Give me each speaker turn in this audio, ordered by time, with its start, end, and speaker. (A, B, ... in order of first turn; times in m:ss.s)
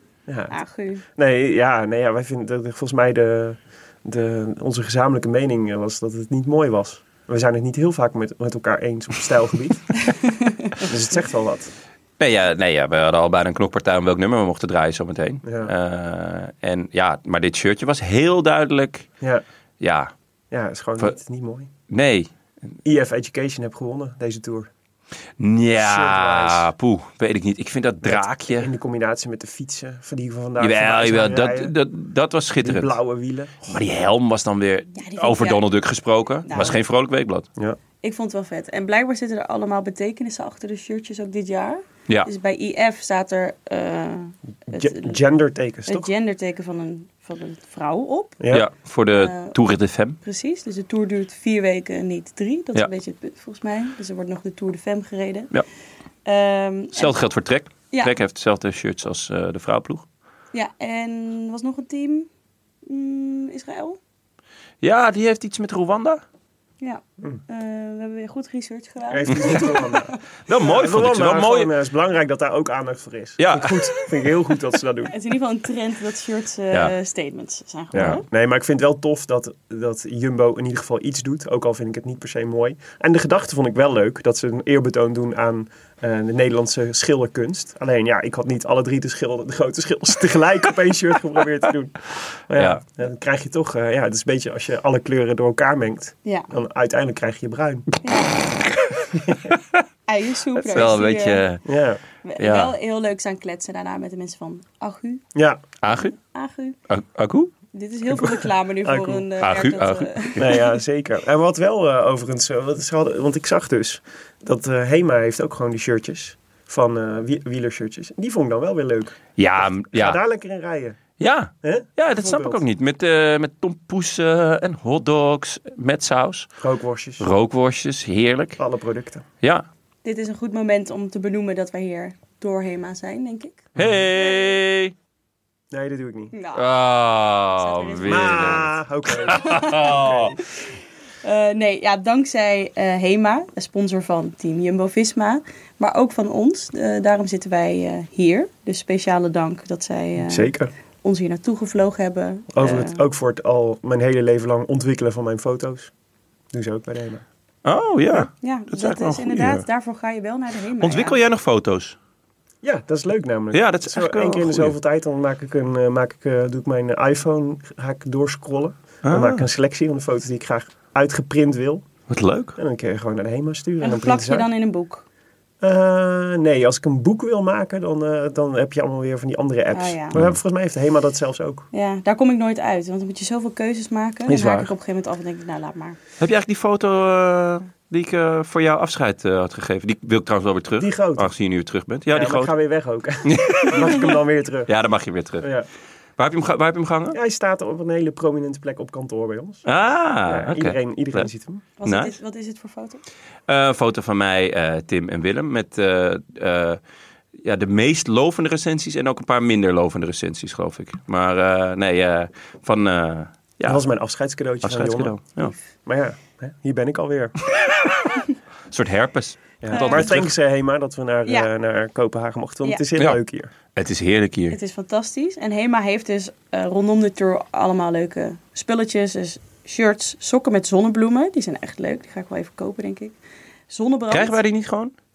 0:00.3-0:00.6 A
0:00.5-0:01.0 B
0:01.1-0:09.9 A
0:10.8-0:11.7 A
0:12.2-0:19.1 C
0:15.4-0:15.7 A
0:19.8-0:20.1 C
0:20.5-0:21.7 A
0:21.9-0:22.3 C
0:22.8-0:24.7 A
0:25.4-0:28.7 C
0:25.8-0:26.7 A
0:28.0-0:31.7 A
0:30.6-0:33.0 C
0:32.6-0:33.8 A
0:33.7-0:37.5 C
0:35.0-0:35.6 B
0:36.5-0:36.8 B
0:38.0-0:45.2 B
0:44.7-0:46.1 A
0:45.9-0:48.4 B
0:48.4-0:48.7 A
0:48.5-0:50.2 C
0:49.1-0:49.6 B
0:50.2-0:55.5 B
0:56.2-0:57.2 B
0:57.0-1:00.0 C
1:00.5-1:02.3 B
1:02.9-1:04.0 B
1:04.8-1:06.2 C
1:06.8-1:10.2 B
1:09.1-1:15.2 A
1:09.3-1:09.6 C
1:10.5-1:11.7 C
1:13.4-1:14.1 C
1:15.1-1:18.2 B
1:17.9-1:37.9 A
1:17.9-1:18.2 C
1:32.5-1:32.8 C
1:36.2-1:36.5 B
1:38.0-1:38.4 B
1:38.6-1:39.8 C
1:40.1-1:41.4 B
1:40.6-1:41.6 C
1:41.6-1:42.0 A
1:42.2-1:45.2 B
1:42.4-1:42.7 C
1:45.4-1:45.6 A
1:45.8-1:46.2 C
1:45.9-1:46.8 B
1:46.9-1:47.5 C
1:47.7-1:50.6 B
1:48.1-1:49.3 A
1:49.4-1:50.5 C
1:50.4-2:01.0 A
1:59.4-2:00.2 C
2:01.2-2:06.5 C
2:01.6-2:02.6 A
2:06.6-2:07.3 A
2:07.2-2:08.6 C
2:08.6-2:09.2 A
2:10.0-2:14.6 B
2:13.8-2:14.9 C
2:15.7-2:16.4 A
2:16.3-2:16.7 B
2:16.5-2:20.4 C
2:17.6-2:18.4 B
2:18.1-2:20.4 A
2:19.3-2:20.4 B
2:21.2-2:30.5 B
2:30.2-2:30.7 A
2:31.0-2:33.0 B
2:32.5-2:35.9 A
2:36.5-2:37.2 A
2:37.6-2:39.6 C
2:38.4-2:41.2 B
2:40.8-2:42.0 C
2:42.6-2:51.8 A
2:43.5-2:44.8 C
2:49.0-2:49.5 C
2:52.1-2:52.5 C
2:52.6-2:54.5 A
2:53.8-2:55.0 B
2:55.6-3:01.7 A
2:59.7-3:00.2 B
3:01.7-3:06.0 B
3:04.3-3:04.7 A
3:06.2-3:12.6 C
3:10.8-3:11.3 A
3:12.1-3:14.7 A
3:13.2-3:14.1 C
3:14.7-3:15.5 C
3:15.4-3:15.7 A
3:16.2-3:17.2 C
3:17.1-3:19.6 A
3:19.7-3:21.3 C
3:20.3-3:21.6 A
3:21.8-3:23.0 B
3:21.8-3:22.2 C
3:23.5-3:26.8 C
3:27.4-3:33.8 C
3:33.7-3:35.2 A
3:34.6-3:35.5 C
3:35.9-3:37.3 A
3:38.7-3:40.3 C
3:39.6-3:43.5 A
3:39.7-3:40.1 B
3:43.7-3:44.6 C
3:44.5-3:53.2 B
3:53.7-3:54.4 B
3:54.1-3:54.9 C